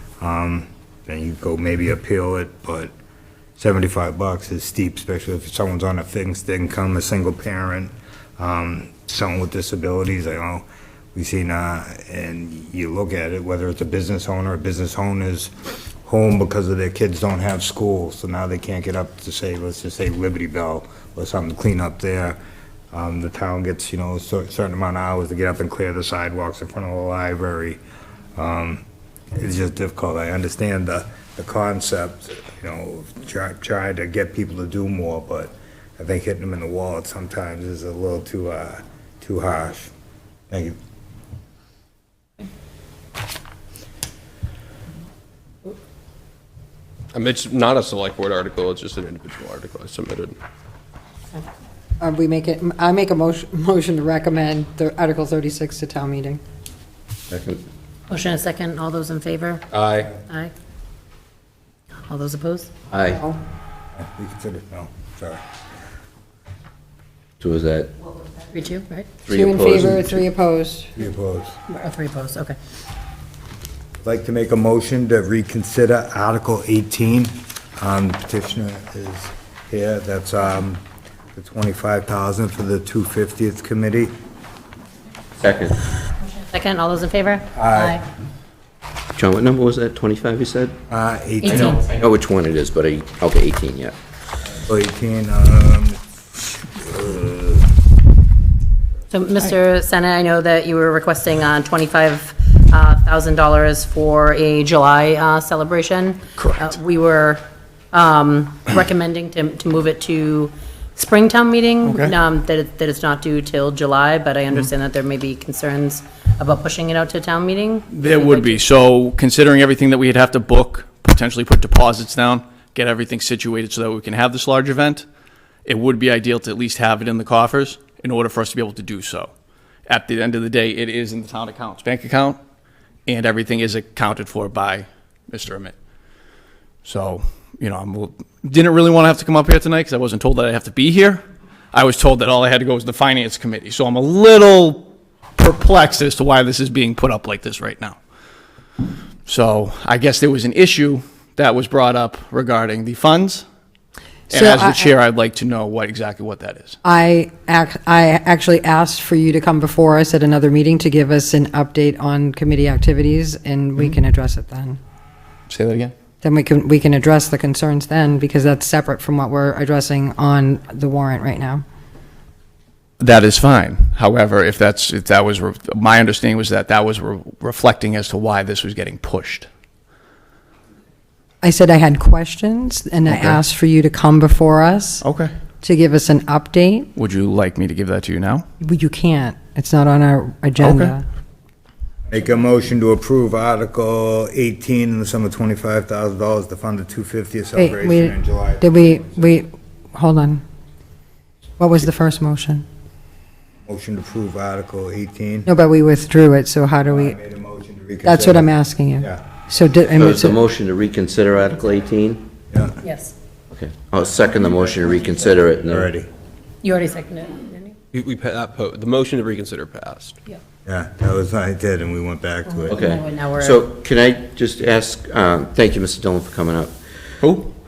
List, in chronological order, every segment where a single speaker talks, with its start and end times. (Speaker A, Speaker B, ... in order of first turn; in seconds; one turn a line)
Speaker A: 0.2-2.9
Speaker A: 3.6-15.5
Speaker A: 16.0-22.4
Speaker A: 22.9-27.8
Speaker A: 28.4-28.8
Speaker A: 29.4-39.9
Speaker A: 40.5-40.8
Speaker B: 47.1-50.4
Speaker C: 52.0-56.4
Speaker D: 57.3-57.6
Speaker E: 58.1-59.6
Speaker B: 59.7-60.1
Speaker E: 60.2-60.5
Speaker E: 62.1-62.7
Speaker D: 62.9-63.2
Speaker C: 63.1-63.4
Speaker A: 64.0-65.4
Speaker D: 67.4-67.9
Speaker E: 68.5-69.2
Speaker D: 69.2-70.2
Speaker C: 69.3-70.9
Speaker A: 71.0-71.6
Speaker E: 71.7-72.5
Speaker A: 74.0-80.8
Speaker A: 81.3-84.1
Speaker D: 85.4-85.9
Speaker E: 86.4-88.0
Speaker A: 87.5-88.0
Speaker D: 89.2-90.8
Speaker A: 90.9-91.9
Speaker E: 91.4-92.0
Speaker D: 91.5-93.9
Speaker A: 94.5-96.0
Speaker A: 96.6-97.7
Speaker E: 99.1-118.6
Speaker F: 106.4-106.7
Speaker F: 111.8-112.2
Speaker F: 117.9-125.0
Speaker F: 125.7-129.3
Speaker F: 129.9-132.4
Speaker F: 133.1-135.7
Speaker F: 136.8-141.2
Speaker F: 141.7-144.8
Speaker F: 145.4-148.0
Speaker F: 149.2-153.4
Speaker C: 154.3-154.9
Speaker F: 154.3-156.8
Speaker C: 156.8-164.8
Speaker F: 165.5-165.9
Speaker C: 166.2-171.6
Speaker F: 173.0-179.5
Speaker C: 181.4-185.0
Speaker F: 183.1-183.4
Speaker F: 185.0-185.3
Speaker C: 185.6-186.9
Speaker F: 186.9-188.4
Speaker C: 188.6-191.0
Speaker F: 190.6-190.9
Speaker A: 192.1-199.3
Speaker C: 197.6-200.4
Speaker C: 201.6-202.6
Speaker A: 203.7-205.5
Speaker C: 205.5-207.2
Speaker A: 206.8-209.2
Speaker C: 208.0-210.4
Speaker D: 209.9-212.2
Speaker A: 212.5-212.8
Speaker E: 212.8-213.1
Speaker D: 213.5-215.9
Speaker A: 215.7-216.1
Speaker E: 216.6-217.7
Speaker B: 217.9-220.1
Speaker A: 220.7-222.8
Speaker E: 222.5-223.6
Speaker D: 222.7-226.7
Speaker F: 227.2-227.5